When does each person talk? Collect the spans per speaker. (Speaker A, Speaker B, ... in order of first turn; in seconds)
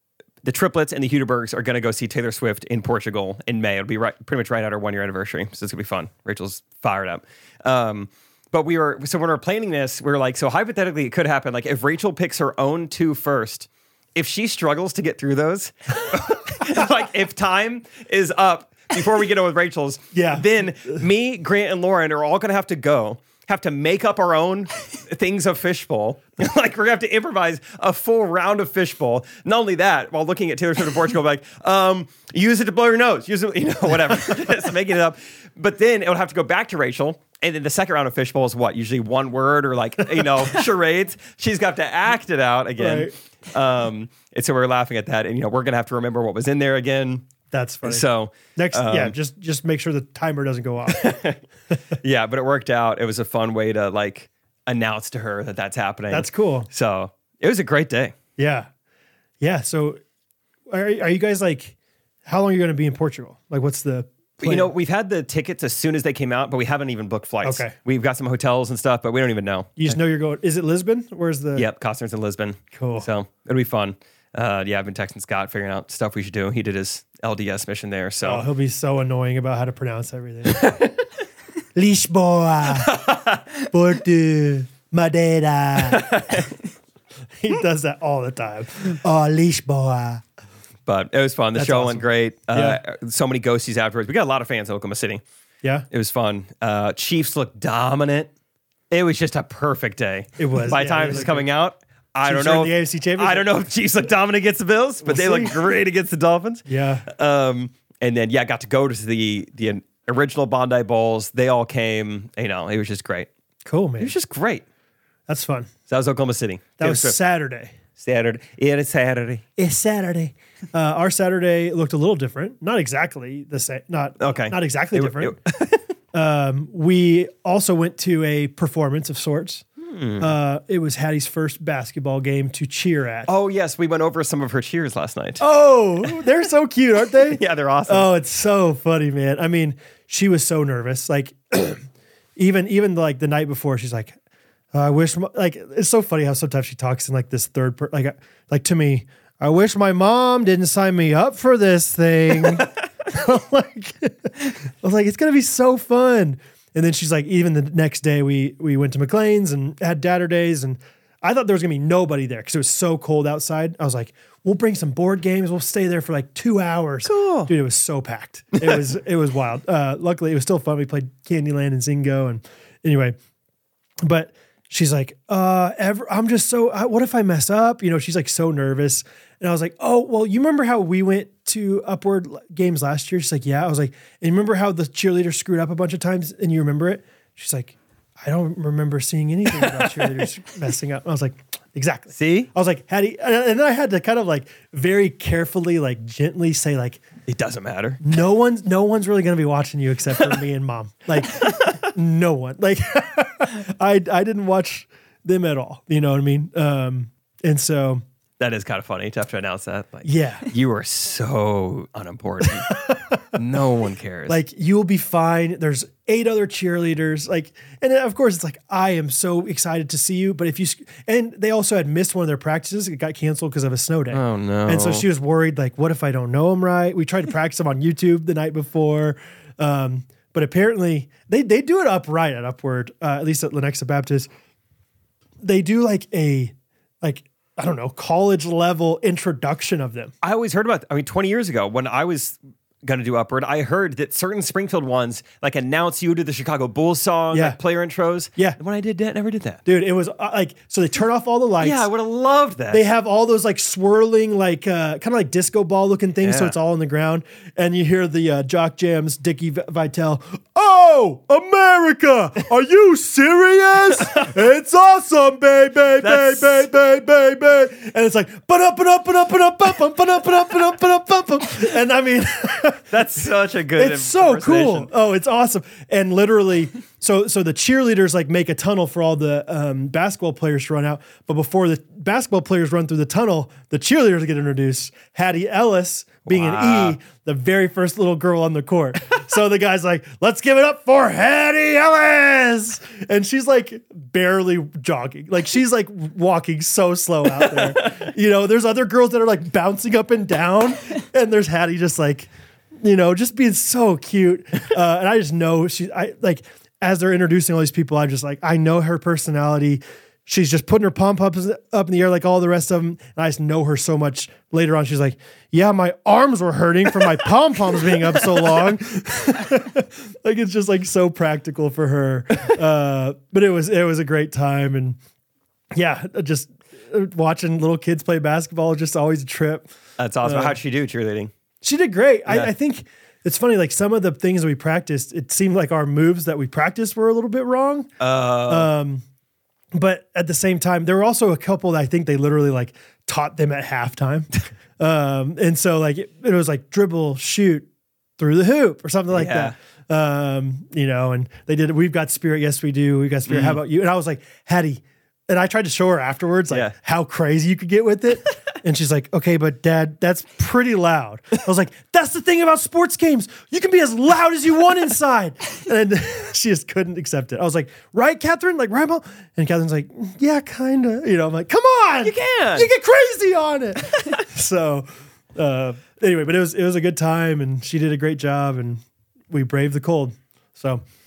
Speaker A: 0.4-47.2, 47.8-49.1, 50.9-51.4, 52.0-58.1, 64.4-70.0, 71.5-78.5, 80.5-80.8, 82.7-83.4, 85.8-86.5, 90.8-95.2, 95.9-98.3, 98.9-113.3, 114.0-114.6, 115.9-117.2, 118.0-119.4, 124.2-125.8, 129.8-130.3, 133.3-135.4, 137.1-138.1, 167.0-167.5, 189.5-190.2, 192.1-192.5, 197.3-198.0, 201.2-201.8, 208.4-212.7, 213.3-214.4, 224.1-225.1, 240.2-249.6, 251.6-252.8, 256.2-256.5, 263.9-264.3, 266.0-266.6, 272.9-274.9, 286.2-287.0, 297.4-297.8, 330.0-331.3, 332.3-332.5, 338.0-338.7, 349.1-349.5, 353.3-353.6, 372.0-372.7
Speaker B: 20.1-21.0, 42.8-43.1, 47.5-51.1, 56.1-56.7, 58.4-58.7, 59.4-60.0, 60.7-64.7, 67.4-67.7, 69.8-71.7, 72.7-73.1, 78.2-80.8, 81.7-83.1, 83.7-86.2, 87.4-90.2, 91.5-92.8, 100.4-101.5, 102.2-103.5, 105.0-105.6, 106.7-107.0, 113.6-114.1, 115.3-115.7, 116.8-117.7, 119.6-125.4, 126.1-129.6, 130.2-133.3, 135.4-141.8, 142.3-144.2, 144.7-173.2, 174.0-197.0, 198.0-208.0, 210.0-210.5, 212.7-213.2, 214.3-234.3, 235.4-240.1, 247.3-247.6, 249.7-251.9, 252.7-272.9, 273.7-302.3, 302.8-325.0, 325.7-329.7, 330.2-330.6, 331.6-337.9, 338.5-339.0, 339.7-347.7, 348.2-380.8